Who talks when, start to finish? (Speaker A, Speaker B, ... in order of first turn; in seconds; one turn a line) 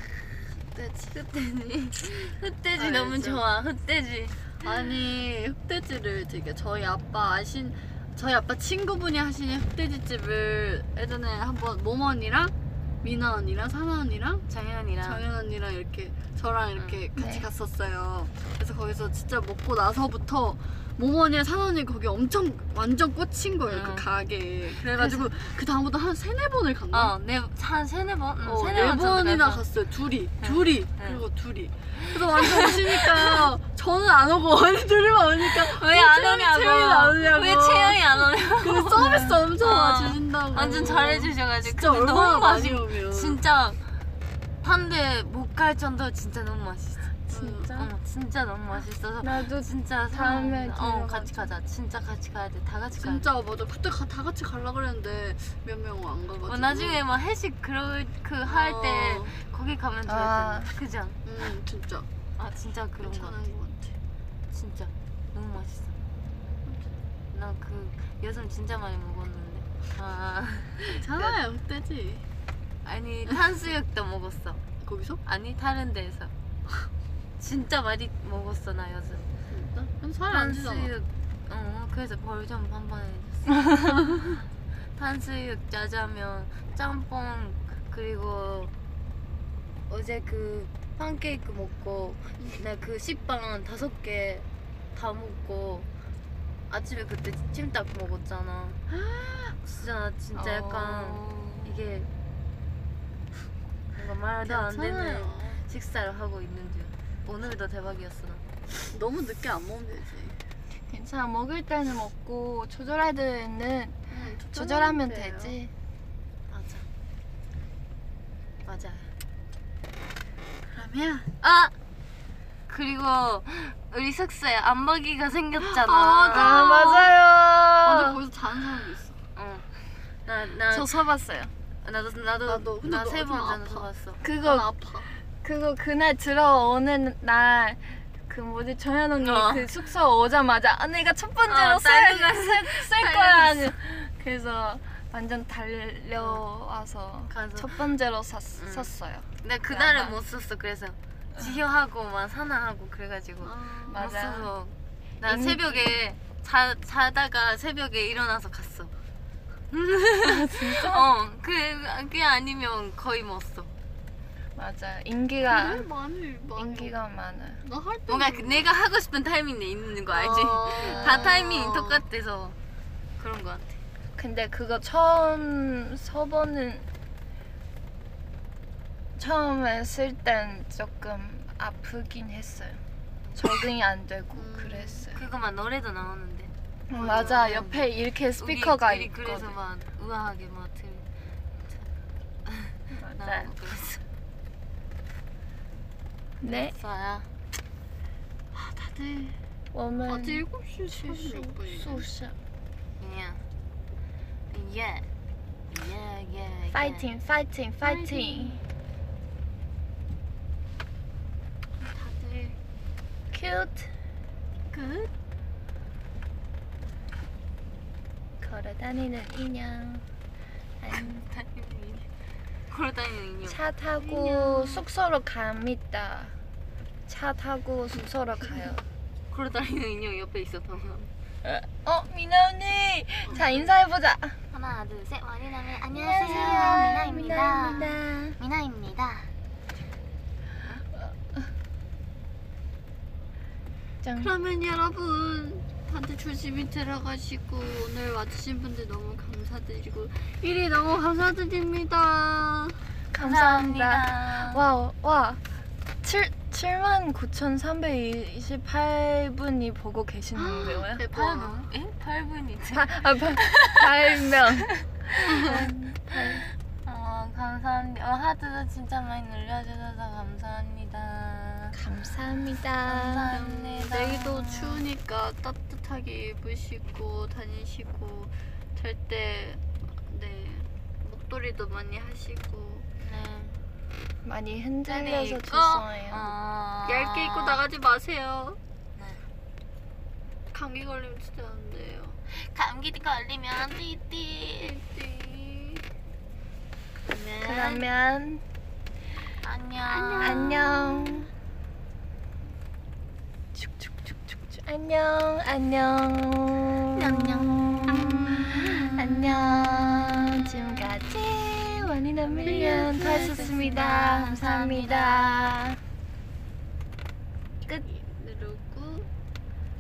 Speaker A: 0.8-4.6
Speaker B: 2.8-3.4
Speaker B: 4.6-14.4
Speaker A: 14.5-15.2
Speaker B: 15.0-27.1
Speaker A: 16.8-17.0
Speaker C: 17.2-17.5
Speaker A: 23.7-24.1
Speaker A: 24.7-25.3
Speaker A: 26.9-29.6
Speaker B: 28.4-43.4
Speaker A: 30.4-31.2
Speaker A: 31.9-33.4
Speaker A: 35.4-43.8
Speaker C: 38.9-39.4
Speaker A: 44.6-47.1
Speaker C: 47.3-47.9
Speaker B: 47.3-47.8
Speaker A: 47.7-53.3
Speaker C: 49.2-51.5
Speaker B: 53.0-57.0
Speaker A: 56.5-61.2
Speaker B: 58.4-59.4
Speaker C: 60.1-60.7
Speaker B: 61.2-62.1
Speaker A: 62.4-63.5
Speaker B: 63.0-64.0
Speaker A: 64.5-66.0
Speaker B: 66.7-66.9
Speaker A: 67.3-71.3
Speaker B: 70.9-72.2
Speaker A: 72.8-74.6
Speaker B: 74.8-75.2
Speaker A: 75.2-76.3
Speaker A: 77.4-79.3
Speaker B: 79.5-80.9
Speaker A: 80.3-84.2
Speaker B: 83.9-84.3
Speaker A: 85.0-88.7
Speaker A: 89.9-95.9
Speaker A: 96.7-98.8
Speaker B: 98.9-99.6
Speaker A: 99.7-102.1
Speaker B: 100.3-101.7
Speaker A: 103.9-108.5
Speaker B: 104.4-105.6
Speaker B: 108.9-110.4
Speaker C: 110.9-114.0
Speaker B: 114.1-115.6
Speaker C: 114.5-115.7
Speaker A: 116.5-116.9
Speaker A: 118.7-119.1
Speaker B: 120.7-121.3
Speaker A: 121.4-121.7
Speaker A: 122.7-126.6
Speaker B: 125.6-127.2
Speaker C: 126.3-128.2
Speaker B: 127.8-129.2
Speaker A: 129.4-129.7
Speaker A: 130.3-130.9
Speaker C: 130.7-131.5
Speaker A: 131.8-134.2
Speaker B: 132.5-133.9
Speaker C: 134.2-134.7
Speaker B: 134.4-135.1
Speaker C: 135.4-150.2
Speaker A: 139.2-139.7
Speaker A: 141.5-143.2
Speaker B: 143.0-143.6
Speaker A: 146.2-146.4
Speaker A: 147.3-147.9
Speaker A: 148.6-148.9
Speaker A: 149.4-158.9
Speaker B: 153.4-154.1
Speaker C: 153.9-154.5
Speaker C: 155.2-155.8
Speaker A: 159.7-163.7
Speaker C: 160.2-161.1
Speaker C: 164.6-165.9
Speaker B: 165.5-166.9
Speaker C: 166.6-167.6
Speaker B: 167.6-168.7
Speaker A: 168.1-172.6
Speaker B: 170.1-172.1
Speaker C: 170.8-171.4
Speaker A: 173.2-173.8
Speaker C: 174.2-176.9
Speaker C: 179.2-182.8
Speaker C: 183.4-185.2
Speaker B: 184.3-185.1
Speaker A: 185.1-191.1
Speaker C: 186.9-189.6
Speaker A: 192.5-194.0
Speaker C: 192.9-193.5
Speaker C: 196.4-196.7
Speaker A: 196.4-197.3
Speaker B: 198.5-199.4
Speaker C: 199.7-202.3
Speaker B: 200.1-202.1
Speaker A: 203.0-203.4
Speaker A: 204.5-205.1
Speaker A: 205.7-207.1
Speaker C: 206.7-208.6
Speaker B: 207.8-208.6
Speaker B: 211.8-212.6
Speaker C: 213.3-213.9
Speaker B: 214.7-215.1
Speaker C: 218.4-220.1
Speaker C: 220.8-221.2
Speaker A: 220.9-222.1
Speaker A: 222.7-223.6
Speaker C: 223.5-226.3
Speaker B: 224.0-224.8
Speaker C: 227.1-228.8
Speaker A: 229.3-231.1
Speaker C: 231.4-234.4
Speaker A: 233.3-233.7
Speaker A: 234.5-239.3
Speaker C: 235.9-238.4
Speaker C: 241.0-241.4
Speaker C: 244.0-244.3
Speaker B: 244.2-252.8
Speaker C: 253.1-255.4
Speaker A: 253.1-254.6
Speaker C: 256.0-261.0
Speaker B: 260.3-261.7
Speaker A: 261.1-263.9
Speaker C: 262.7-266.5
Speaker A: 265.2-265.5
Speaker A: 266.1-271.8
Speaker C: 271.7-273.3
Speaker A: 272.9-274.7
Speaker B: 273.3-282.9
Speaker A: 283.0-283.6
Speaker C: 284.2-286.3
Speaker A: 284.9-287.6
Speaker B: 286.9-288.6
Speaker A: 289.0-289.2
Speaker B: 290.5-292.2
Speaker A: 292.3-294.8
Speaker B: 294.5-295.8
Speaker A: 297.1-297.9
Speaker C: 297.4-298.4
Speaker A: 299.4-300.7
Speaker B: 299.9-301.2
Speaker C: 300.2-301.3
Speaker C: 303.6-315.8
Speaker A: 306.9-311.7
Speaker B: 312.2-313.7
Speaker A: 312.4-315.5
Speaker B: 317.8-319.1